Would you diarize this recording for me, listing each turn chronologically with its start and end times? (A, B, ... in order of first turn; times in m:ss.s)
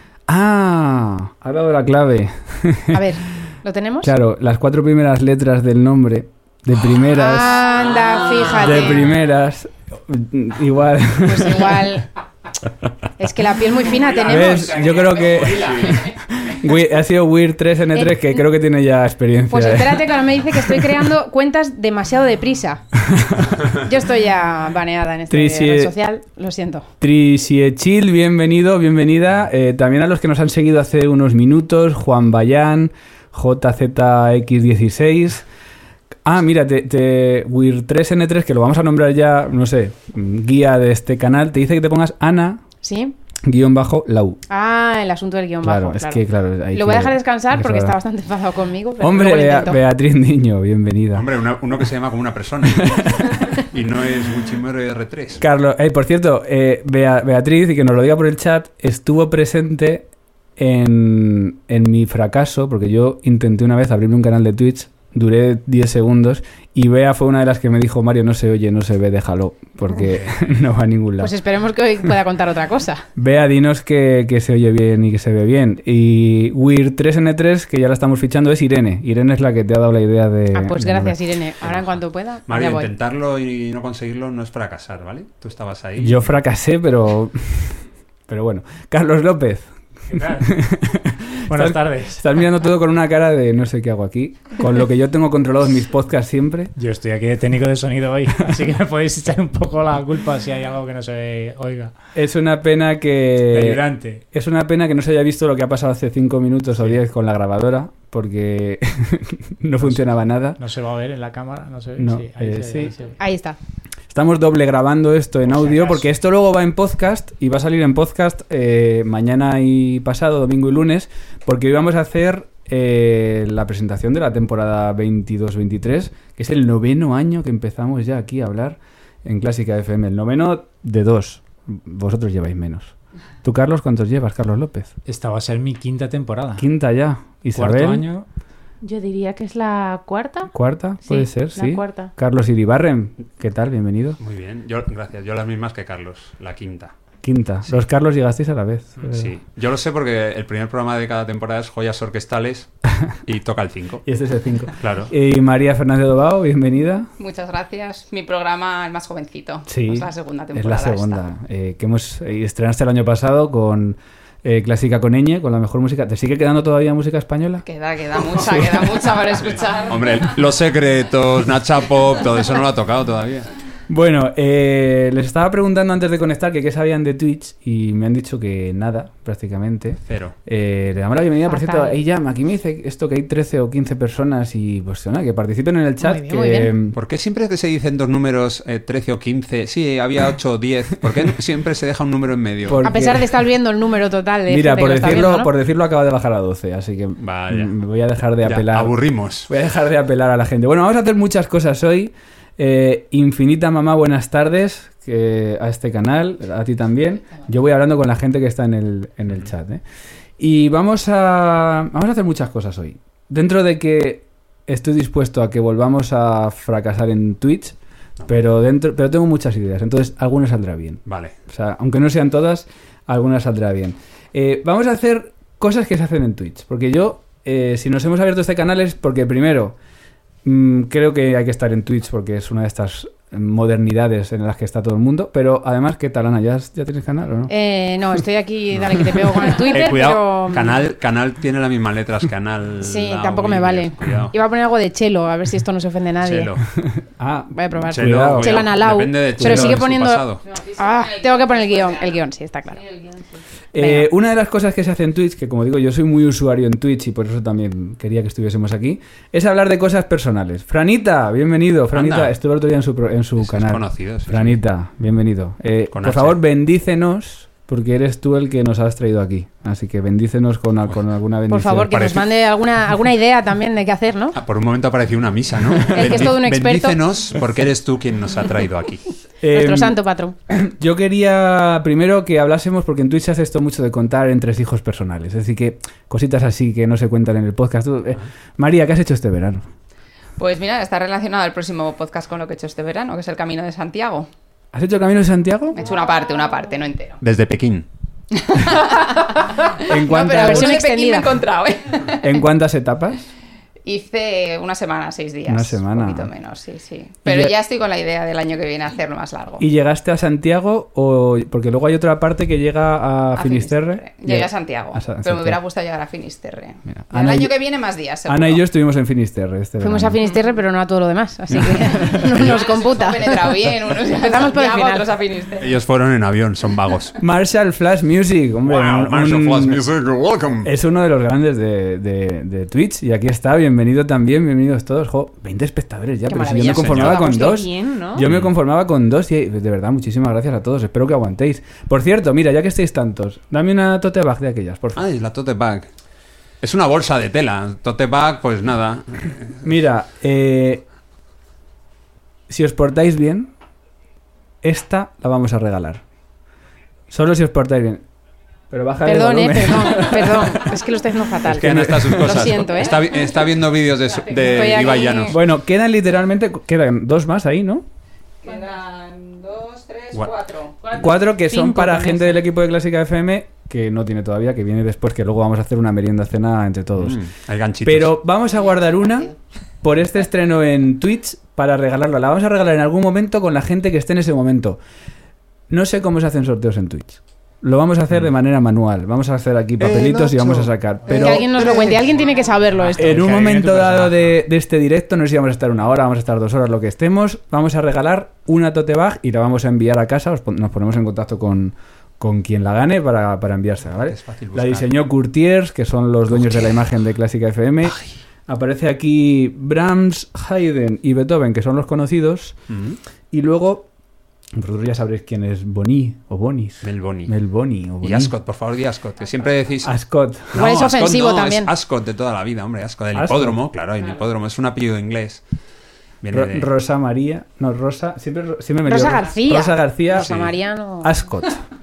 0:00.3-0:03.1 A
0:02.9-0:04.1 B
0:04.0-0:07.7 A
0:07.1-0:09.1 B
0:08.5-0:12.0 A
0:11.2-0:12.0 B
0:13.2-0:14.9 B
0:13.9-0:16.1 C
0:14.2-0:20.9 A
0:15.3-0:16.0 D
0:17.9-0:18.4 B
0:19.5-0:22.8 B
0:23.1-0:23.6 A
0:23.7-0:26.9 B
0:25.3-0:25.9 A
0:27.0-0:35.4 A
0:36.2-0:42.6 A
0:42.8-0:43.1 B
0:43.4-0:44.4 A
0:44.5-0:49.8 B
0:45.6-0:48.0 A
0:49.0-0:51.3 A
0:51.1-0:55.4 D
0:52.8-0:53.3 A
0:55.4-1:11.3 A
1:11.2-1:13.0 B
1:13.2-1:21.2 A
1:20.5-1:22.9 B
1:22.5-1:26.3 D
1:26.0-1:36.7 A
1:30.1-1:30.6 C
1:31.5-1:32.2 C
1:36.8-1:41.9 C
1:42.1-1:50.6 A
1:43.4-1:44.2 C
1:49.8-1:53.2 C
1:52.0-1:52.9 A
1:53.2-1:53.6 B
1:54.1-2:14.9 A
1:55.4-1:56.1 C
2:15.0-2:16.7 C
2:16.6-2:18.0 A
2:17.5-2:18.2 C
2:18.8-2:22.1 E
2:20.5-2:24.2 A
2:24.2-2:26.9 D
2:27.2-2:29.3 A
2:29.0-2:32.7 D
2:33.2-2:34.0 D
2:34.0-2:37.1 A
2:34.8-2:35.1 D
2:37.2-2:41.2 F
2:39.7-2:49.0 A
2:47.6-2:50.2 F
2:49.9-2:53.5 D
2:53.9-3:07.0 A
3:00.1-3:00.3 D
3:01.5-3:02.0 B
3:06.0-3:06.7 B
3:06.9-3:12.9 D
3:12.6-3:13.3 A
3:12.8-3:15.5 B
3:14.5-3:18.9 A
3:17.2-3:17.7 D
3:18.4-3:19.5 D
3:19.4-3:29.8 A
3:30.4-3:49.8 A
3:41.0-3:41.3 D
3:50.4-3:57.5 A
3:57.5-4:00.8 B
3:59.5-4:04.3 D
4:02.8-4:06.5 B
4:06.2-4:06.6 D
4:06.8-4:08.7 A
4:07.5-4:10.2 B
4:07.9-4:10.4 D
4:09.4-4:09.9 A
4:10.5-4:12.1 F
4:10.8-4:12.8 B
4:13.7-4:32.0 A
4:13.8-4:14.1 B
4:21.9-4:22.3 D
4:23.4-4:24.6 D
4:25.9-4:26.4 D
4:31.5-4:34.4 B
4:31.9-4:32.3 D
4:34.3-4:39.0 D
4:35.9-4:37.0 B
4:39.4-4:49.6 A
4:39.5-4:40.3 B
4:50.4-4:54.3 F
4:54.7-4:55.8 A
4:55.7-4:57.2 F
4:57.2-4:57.8 D
4:58.3-5:02.4 F
4:59.8-5:00.8 A
5:00.1-5:01.3 B
5:02.2-5:03.2 A
5:03.8-5:09.6 F
5:05.4-5:06.3 A
5:07.2-5:07.5 A
5:09.6-5:15.6 A
5:13.3-5:18.6 F
5:16.9-5:17.5 A
5:18.2-5:20.2 A
5:19.8-5:25.0 B
5:22.1-5:25.7 F
5:25.6-5:27.2 D
5:27.2-5:29.8 A
5:28.6-5:30.7 D
5:30.6-5:45.0 A
5:36.3-5:37.5 B
5:36.6-5:37.2 D
5:37.2-5:38.2 E
5:38.2-5:38.5 D
5:45.0-5:45.8 D
5:46.6-5:49.6 D
5:49.6-5:50.8 A
5:52.5-5:53.5 A
5:54.6-5:56.0 A
5:57.1-5:58.0 A
5:58.7-6:00.8 A
5:59.0-6:03.0 B
6:01.4-6:05.4 D
6:01.5-6:02.6 A
6:04.5-6:05.3 B
6:04.7-6:05.0 F
6:05.3-6:07.8 A
6:08.4-6:10.8 F
6:10.8-6:12.4 E
6:10.9-6:17.2 A
6:17.0-6:18.2 D
6:17.8-6:24.8 A
6:19.0-6:19.3 F
6:25.7-6:31.8 A
6:29.8-6:30.7 D
6:31.1-6:33.2 B
6:31.8-6:34.3 C
6:33.0-6:52.6 A
6:44.0-6:44.9 D
6:52.7-6:53.0 D
6:53.3-6:53.9 A
6:54.5-6:58.3 A
6:56.8-6:57.3 D
6:58.0-6:59.9 D
6:59.8-7:00.6 A
7:00.5-7:05.4 D
7:00.5-7:01.7 B
7:03.1-7:03.6 A
7:06.2-7:06.7 D
7:06.3-7:10.4 A
7:08.8-7:11.1 B
7:10.2-7:10.5 D
7:11.0-7:11.6 A